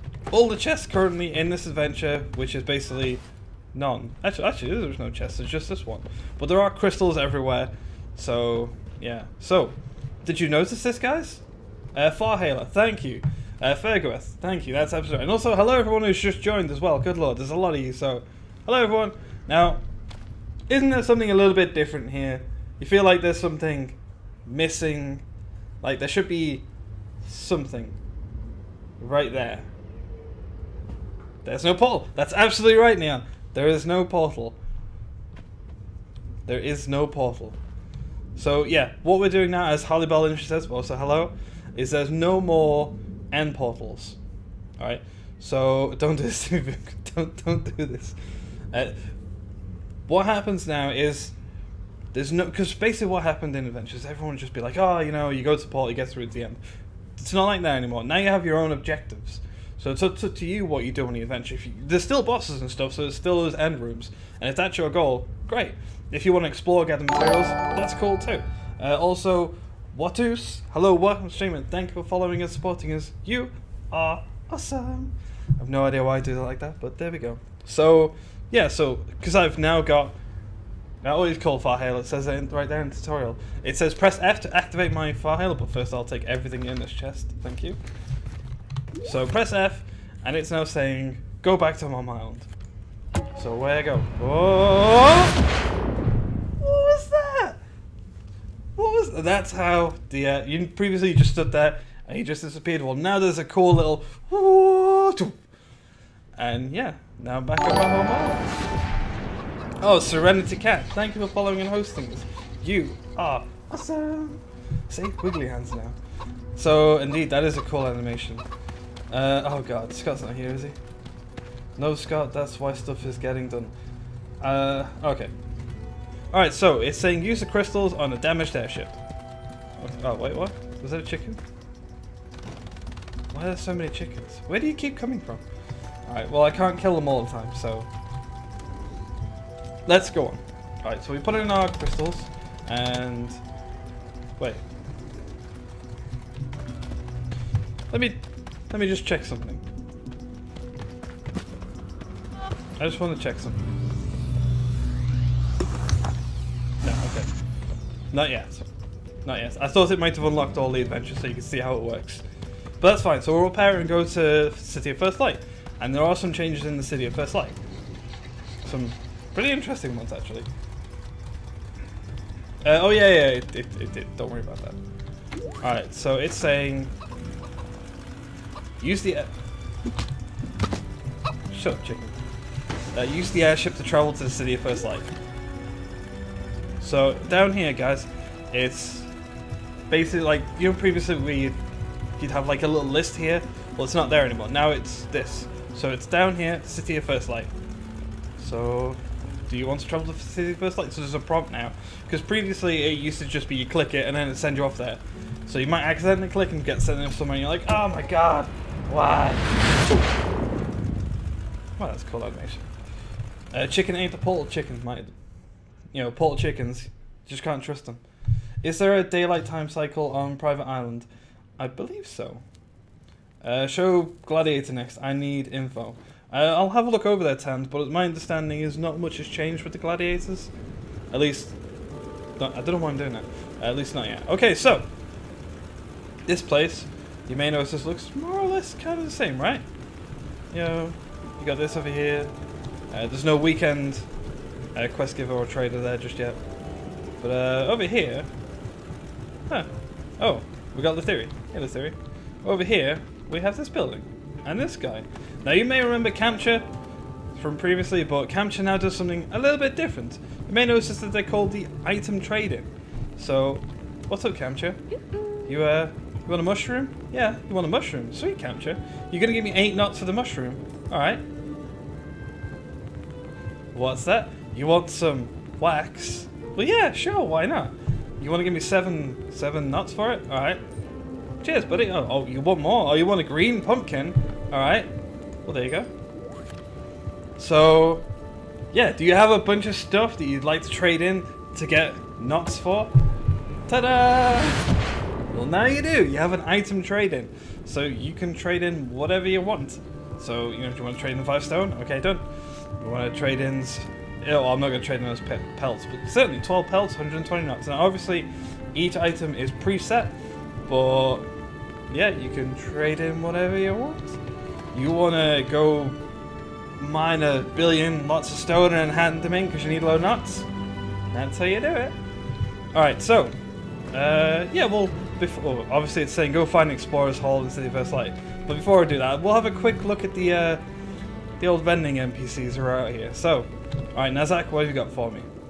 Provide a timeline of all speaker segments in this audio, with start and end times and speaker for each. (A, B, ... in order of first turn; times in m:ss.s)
0:00.3-0:03.2 A
0:03.7-0:11.4 A
0:12.0-0:19.8 A
0:20.7-0:25.2 A
0:25.8-0:26.7 A
0:27.2-0:28.0 A
0:29.0-0:29.7 A
0:31.4-0:34.6 A
0:36.4-0:37.6 A
0:38.4-0:44.2 A
0:44.8-0:48.2 A
0:48.7-0:49.0 A
0:50.1-0:51.3 A
0:52.1-0:56.6 A
0:57.2-1:20.2 A
1:21.0-1:27.8 A
1:29.0-1:32.5 A
1:33.3-1:35.4 A
1:36.6-1:37.6 A
1:38.8-1:45.4 A
1:46.4-1:48.6 A
1:49.8-1:55.9 A
1:56.6-1:58.4 A
1:59.1-2:00.8 A
2:01.8-2:03.7 A
2:04.4-2:05.3 A
2:06.3-2:09.0 A
2:09.8-2:11.4 A
2:13.3-2:15.4 A
2:16.1-2:17.9 A
2:19.9-2:23.4 A
2:27.9-2:29.6 A
2:32.8-2:33.6 A
2:36.8-2:37.3 A
2:38.1-2:38.7 A
2:39.2-2:42.2 A
2:42.8-2:47.6 A
2:48.6-2:50.5 A
2:52.6-2:54.8 A
2:55.6-2:56.9 A
2:58.8-2:59.3 A
3:01.5-3:02.2 A
3:02.9-3:05.1 A
3:06.8-3:09.1 A
3:09.9-3:11.6 A
3:12.2-3:17.5 A
3:18.4-3:30.1 A
3:31.8-3:32.7 A
3:33.5-3:35.1 A
3:35.9-3:38.0 A
3:38.6-3:42.4 A
3:43.4-3:50.5 A
3:51.1-3:51.6 A
3:52.4-3:54.9 A
3:56.3-3:59.6 A
4:00.5-4:02.3 A
4:02.9-4:04.1 A
4:04.8-4:06.4 A
4:07.2-4:08.3 A
4:09.5-4:16.7 A
4:17.4-4:24.8 A
4:25.5-4:31.2 A
4:33.7-4:40.6 A
4:41.4-4:44.9 A
4:45.4-4:45.9 A
4:47.4-4:48.1 A
4:48.7-4:52.9 A
4:53.7-4:54.7 A
4:55.3-5:02.2 A
5:02.8-5:10.2 A
5:10.7-5:11.3 A
5:11.9-5:14.2 A
5:14.7-5:16.0 A
5:16.8-5:20.5 A
5:21.1-5:22.0 A
5:22.7-5:23.4 A
5:23.9-5:30.6 A
5:31.4-5:35.3 A